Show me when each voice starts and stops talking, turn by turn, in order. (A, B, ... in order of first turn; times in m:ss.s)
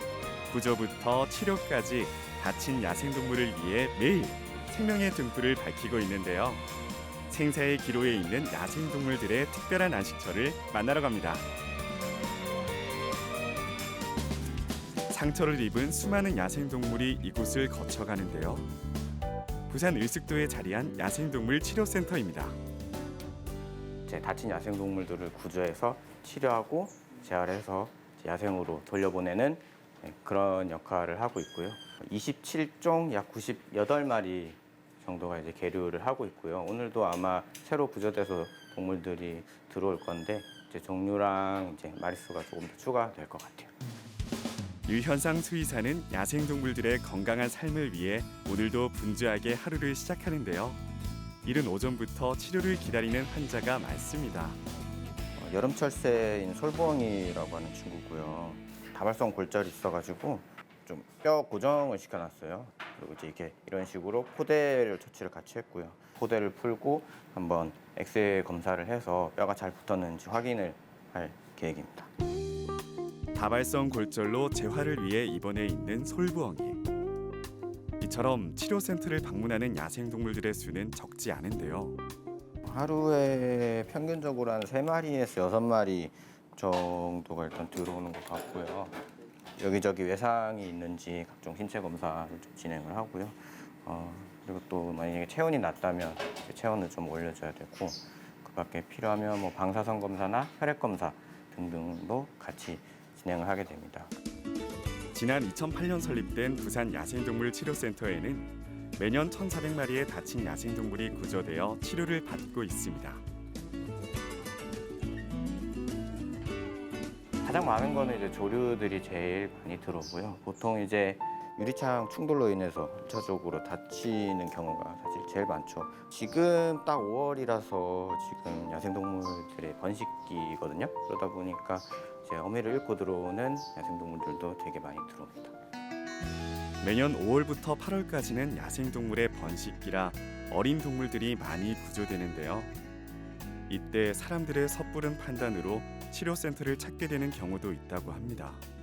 0:00.5-0:06.6 A
0:07.3-0:11.5 A
0:15.1-0:18.7 A
0:19.7-0:22.6 A
0:24.1-0:43.7 B
0:44.9-0:50.8 A
0:51.4-0:54.6 A
0:55.4-1:12.1 B
1:13.4-1:16.8 A
1:18.0-1:22.0 A
1:22.6-1:29.0 B
1:29.6-1:44.1 B
1:45.1-1:53.2 A
1:57.4-2:15.6 B
2:16.8-2:22.7 A
2:23.7-2:28.6 A